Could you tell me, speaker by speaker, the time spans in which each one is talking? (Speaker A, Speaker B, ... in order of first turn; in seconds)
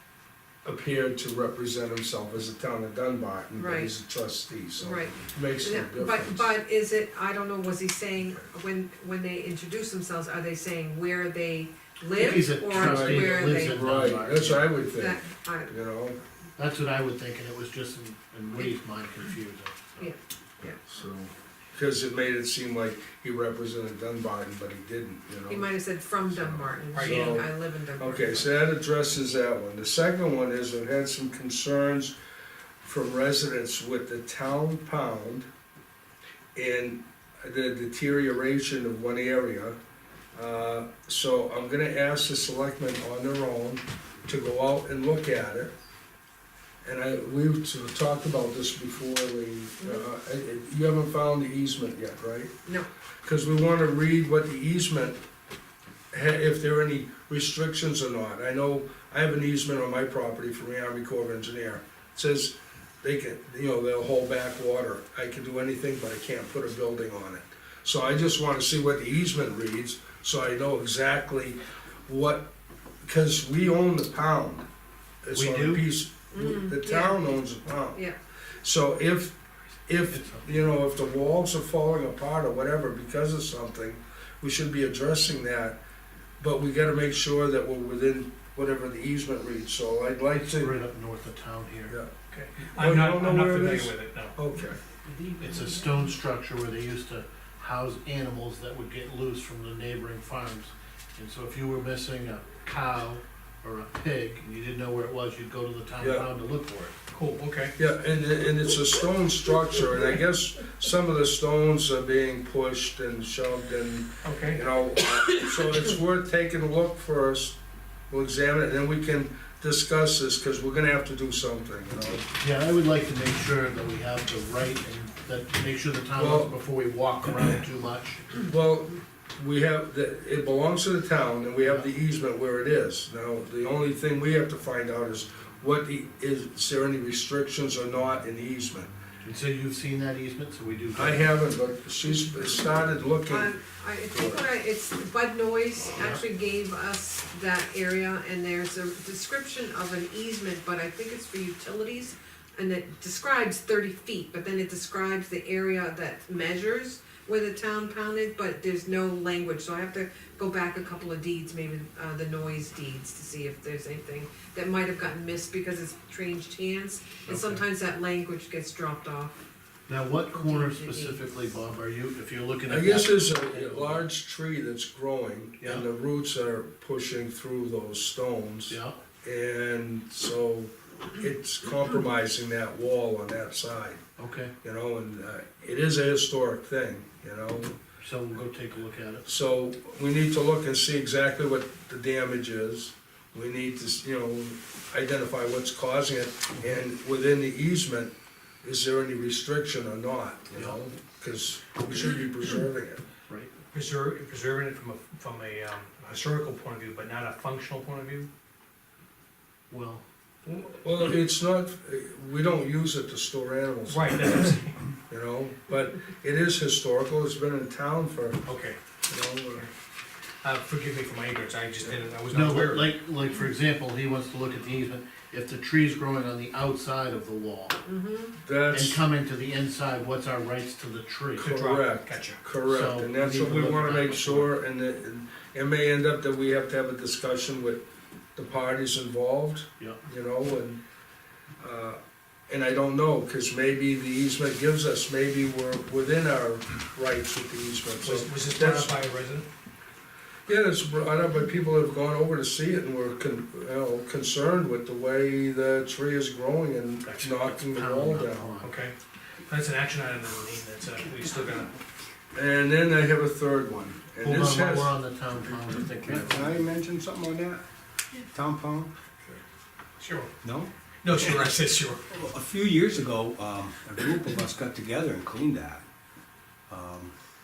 Speaker A: 0.6-6.5, 12.7-16.2, 20.8-25.7, 26.3-27.5, 28.0-32.1, 32.8-35.5, 36.5-39.8, 40.4-45.7, 46.8-52.5, 53.2-55.2, 56.1-72.5, 73.0-74.7, 75.2-78.0, 78.6-85.8, 86.4-90.7, 92.8-94.8, 106.0-106.3, 107.8-117.6, 118.1-122.2, 126.2-126.5, 128.4-138.9, 140.9-143.6, 144.1-144.4, 172.7-184.0, 184.6-187.8, 189.2-203.0, 210.4-214.5, 215.1-218.4, 219.1-219.7, 228.4-229.0, 231.4-237.8, 238.4-240.8, 241.6-242.0, 242.5-249.0, 250.5-258.5, 262.3-264.9
Speaker B: 3.6-3.9, 4.8-13.9, 14.8-15.7, 20.0-20.8, 25.5-28.5, 49.8-50.0, 76.3-77.3, 143.3-169.4, 170.3-171.2, 227.8-228.3
Speaker C: 12.2-14.7, 16.6-20.1, 75.3-75.8, 80.1-80.5, 90.5-92.0, 95.1-106.9, 122.3-128.3, 131.6-131.9, 139.2-141.3, 167.3-167.6, 169.9-174.0, 178.7-178.9, 184.2-184.5, 188.0-189.3, 209.7-210.0, 222.3-227.8, 228.7-231.5, 232.7-234.5, 257.3-258.7, 264.2-266.7
Speaker D: 26.9-27.4, 92.3-94.3, 107.1-107.7, 114.2-114.6, 203.7-208.3, 213.9-214.8, 218.4-218.8, 220.4-222.9, 231.4-232.4, 248.0-249.5, 257.0-257.3, 258.6-258.9, 259.5-261.8, 270.0-270.3, 271.0-272.0
Speaker E: 266.0-267.6, 268.3-268.9, 270.4-270.7, 272.1-275.8, 276.7-277.1